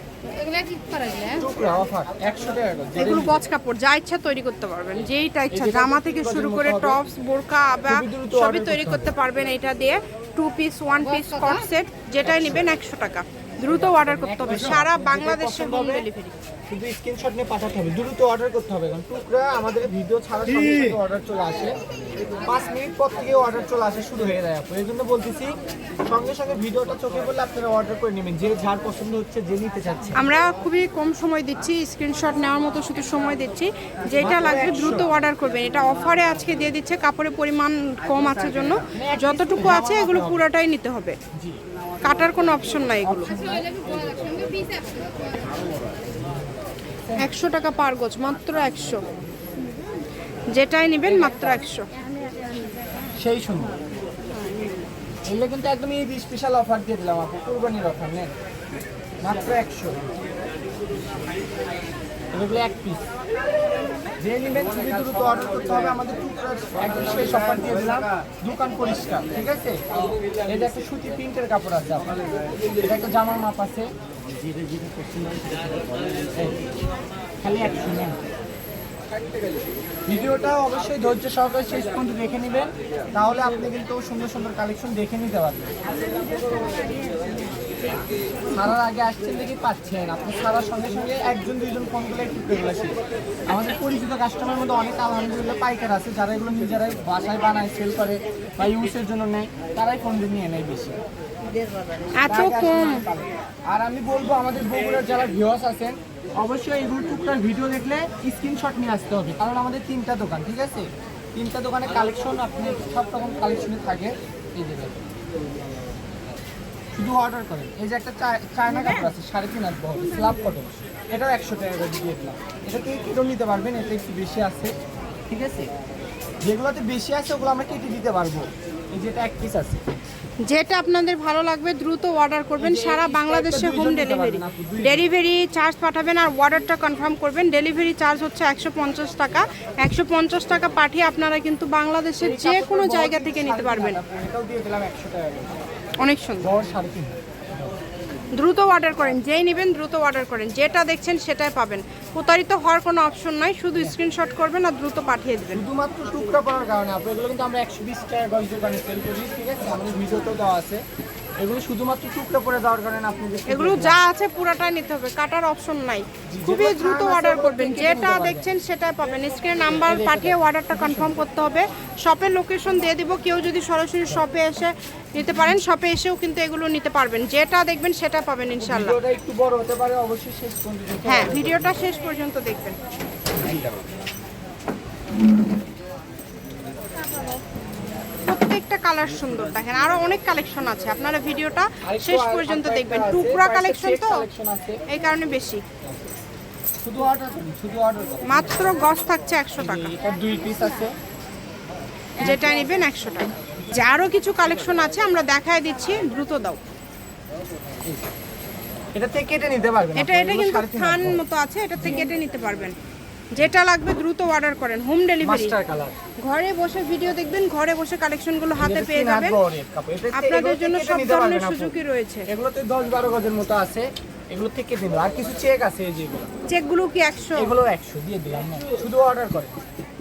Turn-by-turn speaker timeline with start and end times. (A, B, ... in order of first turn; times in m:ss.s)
0:00.3-0:01.5 A
0:01.3-0:03.4 B
0:03.0-0:16.4 C
0:05.5-0:07.0 B
0:07.9-0:09.1 B
0:12.2-0:12.7 B
0:13.6-0:16.1 B
0:16.7-0:21.8 B
0:22.4-0:25.5 B
0:26.1-0:30.2 B
0:30.2-0:41.2 C
0:34.1-0:35.1 B
0:38.8-0:40.5 B
0:42.0-0:43.3 C
0:43.0-0:44.1 B
0:43.4-0:45.5 A
0:47.2-0:49.0 C
0:50.5-0:51.9 C
0:53.2-0:53.8 B
0:55.3-0:58.3 B
0:59.2-1:00.0 B
1:02.3-1:03.0 B
1:04.2-1:09.8 B
1:10.5-1:12.1 B
1:12.8-1:13.9 B
1:14.4-1:15.7 B
1:16.3-1:16.7 B
1:17.4-1:18.2 B
1:20.1-1:25.8 B
1:28.5-1:41.0 B
1:42.2-1:43.1 C
1:42.3-1:55.1 B
1:57.0-2:04.7 B
1:58.7-1:59.1 C
2:05.3-2:05.7 B
2:06.4-2:09.8 B
2:10.4-2:24.0 C
2:12.6-2:15.1 B
2:22.2-2:25.6 B
2:26.0-2:26.5 C
2:26.4-2:27.8 B
2:28.4-2:35.6 C
2:35.5-2:40.8 B
2:41.4-2:44.0 B
2:43.5-2:59.0 C
2:46.3-2:48.5 B
2:49.7-2:51.2 B
2:58.6-3:01.9 B
3:01.0-3:02.8 C
3:03.4-3:03.7 B
3:08.3-3:14.2 C
3:11.8-3:14.8 B
3:14.9-3:15.6 C
3:16.8-3:18.6 B
3:18.2-3:19.9 C
3:19.6-3:21.0 B
3:22.2-3:26.6 C
3:28.9-3:31.2 B
3:30.0-3:32.8 C
3:31.8-3:32.2 B
3:33.3-3:35.6 C
3:35.2-3:36.0 B
3:36.2-3:39.4 C
3:38.6-3:41.8 B
3:40.1-3:42.3 C
3:42.3-3:46.3 B
3:46.5-3:47.5 C
3:47.4-3:49.6 B